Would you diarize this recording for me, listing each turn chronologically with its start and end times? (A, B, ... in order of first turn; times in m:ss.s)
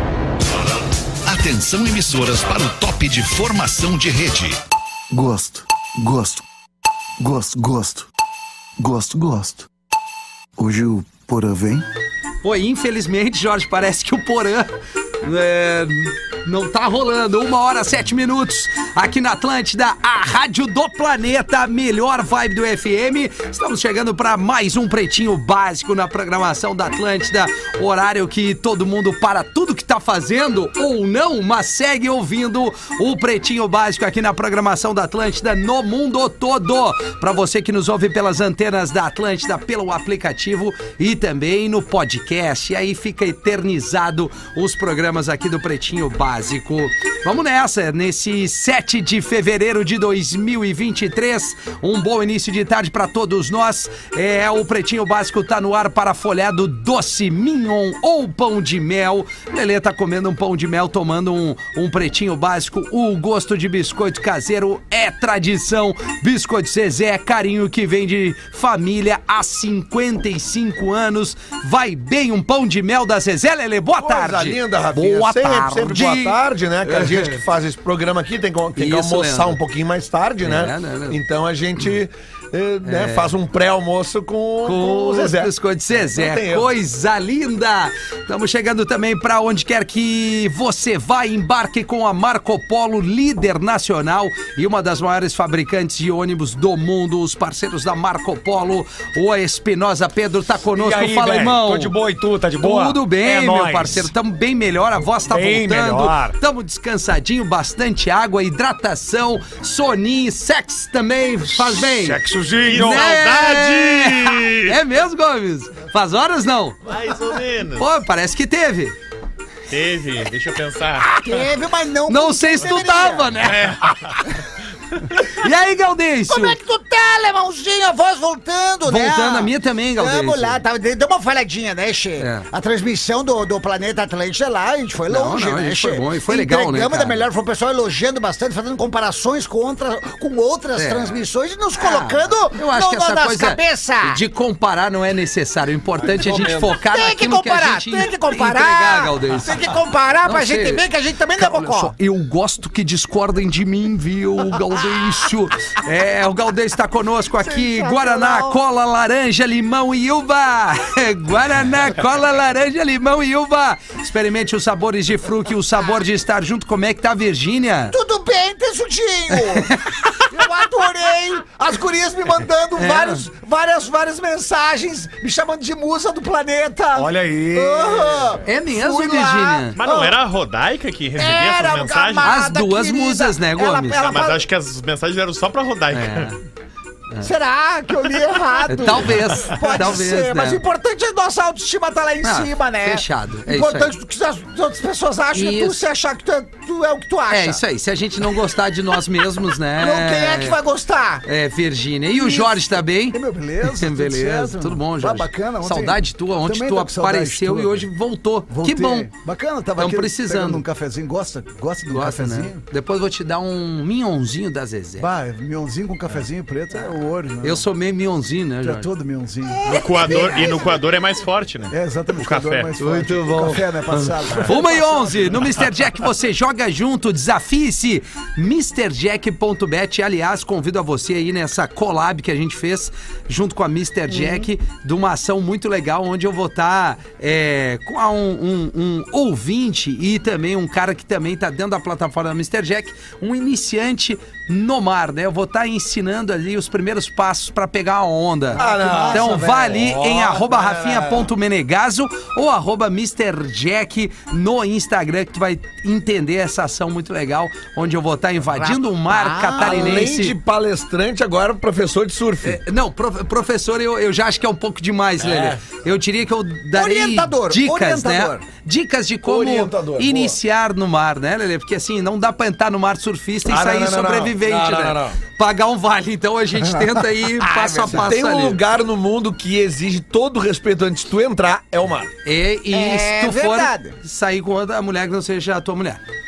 0:01.3-0:04.6 A
0:05.1-0:06.4 B
0:07.2-0:08.1 B
0:08.8-0:09.7 B
0:10.6-0:11.8 B
0:12.4-0:14.7 C
0:15.2-1:17.4 C
1:14.0-1:26.7 D
1:18.8-1:19.6 C
1:20.4-1:21.2 C
1:22.8-1:23.3 C
1:24.6-1:41.9 C
1:40.7-1:44.1 E
1:42.6-1:56.8 C
1:45.3-1:46.4 E
1:51.5-1:53.2 E
1:52.6-1:54.8 F
1:56.8-1:57.9 F
1:57.8-1:58.9 C
1:59.7-2:01.4 F
2:01.0-2:03.3 G
2:02.1-2:03.8 C
2:03.4-2:04.2 F
2:05.2-2:06.6 C
2:06.3-2:24.2 G
2:08.8-2:10.6 C
2:12.2-2:12.5 C
2:15.1-2:17.2 C
2:20.7-2:21.2 C
2:21.7-2:29.6 C
2:26.0-2:26.8 D
2:26.8-2:31.9 G
2:30.2-2:30.8 C
2:31.4-2:48.0 C
2:37.4-2:38.6 G
2:47.9-2:49.8 G
2:49.3-2:50.2 C
2:50.3-3:00.2 G
2:52.8-2:53.2 C
2:56.9-2:58.4 E
2:58.4-2:59.8 C
2:59.8-3:02.4 F
3:01.2-3:04.4 G
3:02.2-3:04.2 C
3:04.1-3:06.3 F
3:05.9-3:06.4 C
3:07.2-3:17.6 G
3:08.7-3:10.6 C
3:12.2-3:13.9 C
3:15.3-3:15.8 C
3:17.3-3:20.6 C
3:19.8-3:21.2 G
3:21.2-3:29.1 C
3:22.1-3:27.9 G
3:28.5-3:32.6 G
3:29.8-3:30.6 C
3:31.9-3:35.1 C
3:35.0-3:37.6 G
3:37.4-3:38.9 C
3:38.6-3:40.8 G
3:39.7-3:42.7 F
3:41.7-3:45.6 G
3:42.8-3:44.3 D
3:44.4-4:20.3 C
4:08.6-4:09.8 G
4:08.6-4:11.3 D
4:18.5-4:20.1 G
4:19.6-4:22.6 D
4:22.4-4:38.6 C
4:25.2-4:25.6 D
4:26.7-4:28.4 G
4:29.2-4:30.4 D
4:33.4-4:35.2 D
4:36.8-4:38.1 G
4:37.8-4:42.1 D
4:42.2-4:46.0 C
4:42.7-4:44.0 G